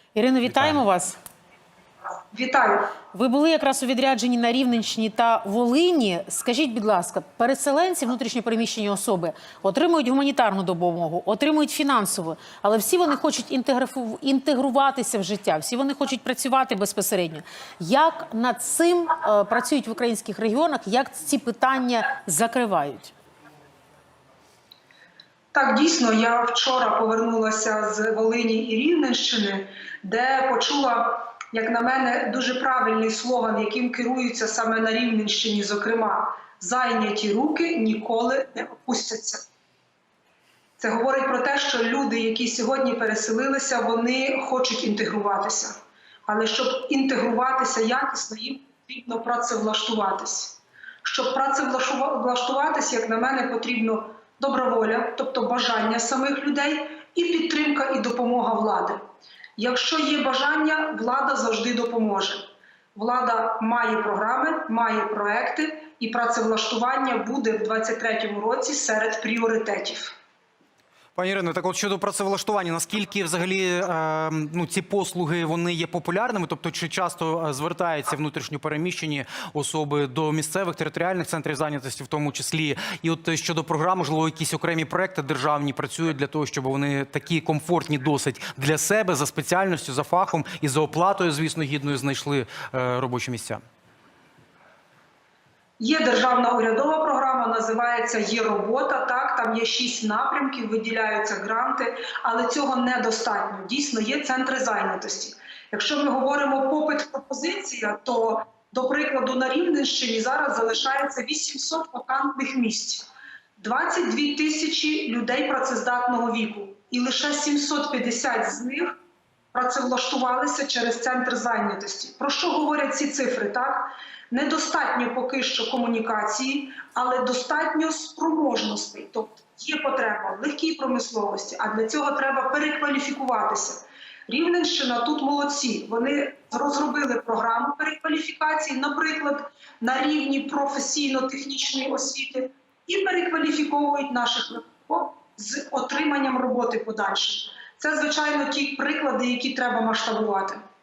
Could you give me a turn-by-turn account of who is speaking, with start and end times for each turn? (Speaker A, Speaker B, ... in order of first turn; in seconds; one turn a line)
Speaker A: 0.1-1.2
Speaker B: 0.4-0.8
Speaker C: 2.3-2.9
Speaker A: 3.1-23.1
Speaker C: 25.5-39.5
Speaker C: 40.8-45.7
Speaker C: 46.3-59.0
Speaker C: 59.6-70.1
Speaker B: 71.2-93.6
Speaker C: 95.8-118.9
Speaker C: 119.5-150.6